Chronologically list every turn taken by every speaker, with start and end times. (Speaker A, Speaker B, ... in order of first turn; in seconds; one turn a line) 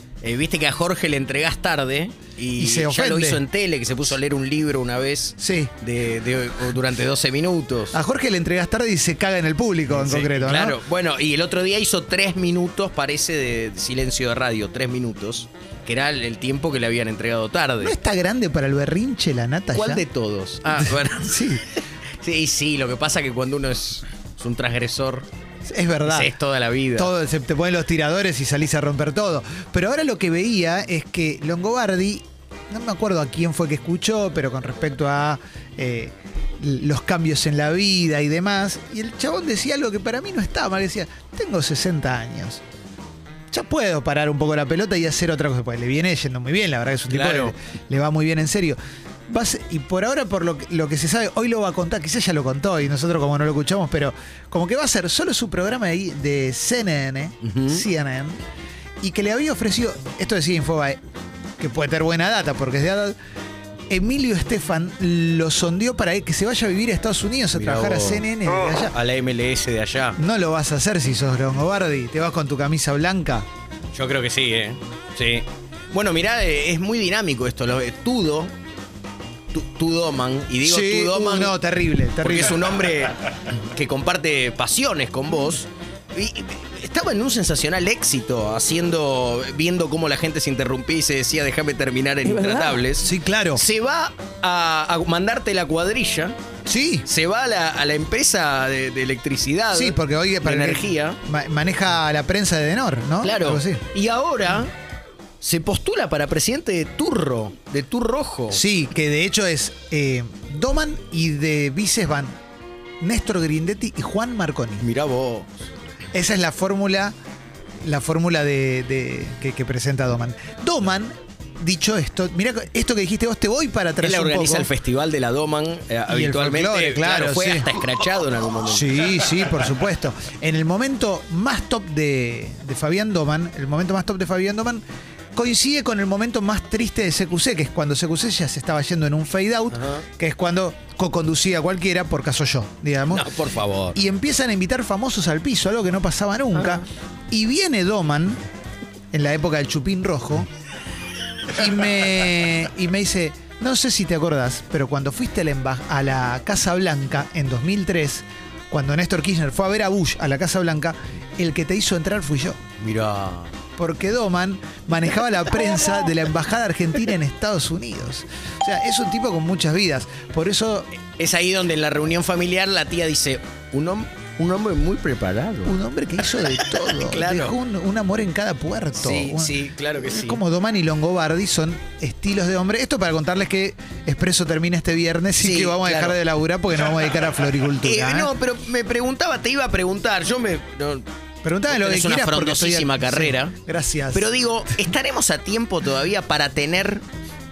Speaker A: 0.2-8.0
Speaker B: 2.6-3.4
Speaker B: 5.4-5.7
Speaker B: 7.9-10.8
Speaker A: 9.9-17.9
Speaker B: 17.8-20.0
Speaker A: 19.7-25.3
Speaker B: 20.8-21.6
Speaker B: 25.7-26.3
Speaker A: 26.1-27.1
Speaker B: 27.0-42.6
Speaker B: 43.5-48.8
Speaker A: 47.1-47.5
Speaker B: 49.3-58.4
Speaker A: 57.4-57.8
Speaker B: 59.0-61.0
Speaker B: 61.6-63.1
Speaker B: 63.9-68.9
Speaker A: 67.5-70.2
Speaker B: 70.2-73.5
Speaker A: 74.0-78.5
Speaker A: 79.5-81.6
Speaker B: 80.6-82.7
Speaker A: 82.2-96.3
Speaker B: 93.0-93.6
Speaker B: 96.7-97.1
Speaker A: 97.1-101.2
Speaker B: 99.7-103.8
Speaker A: 103.2-104.7
Speaker A: 105.4-108.6
Speaker B: 108.5-112.4
Speaker B: 113.0-114.8
Speaker A: 114.8-115.5
Speaker B: 116.1-117.1
Speaker B: 117.8-124.7
Speaker A: 124.0-129.2
Speaker B: 126.1-127.7
Speaker B: 128.7-134.8
Speaker B: 135.3-143.3
Speaker A: 139.7-140.0
Speaker A: 143.1-144.0
Speaker B: 143.9-148.4
Speaker B: 149.1-150.5
Speaker B: 151.5-162.6
Speaker A: 162.8-163.5
Speaker B: 163.8-170.9
Speaker A: 171.2-175.8
Speaker B: 175.7-179.6
Speaker A: 176.4-177.6
Speaker A: 179.0-180.4
Speaker B: 180.1-188.3
Speaker A: 185.4-186.2
Speaker A: 187.8-191.1
Speaker B: 191.4-194.3
Speaker A: 191.7-193.6
Speaker A: 194.1-197.0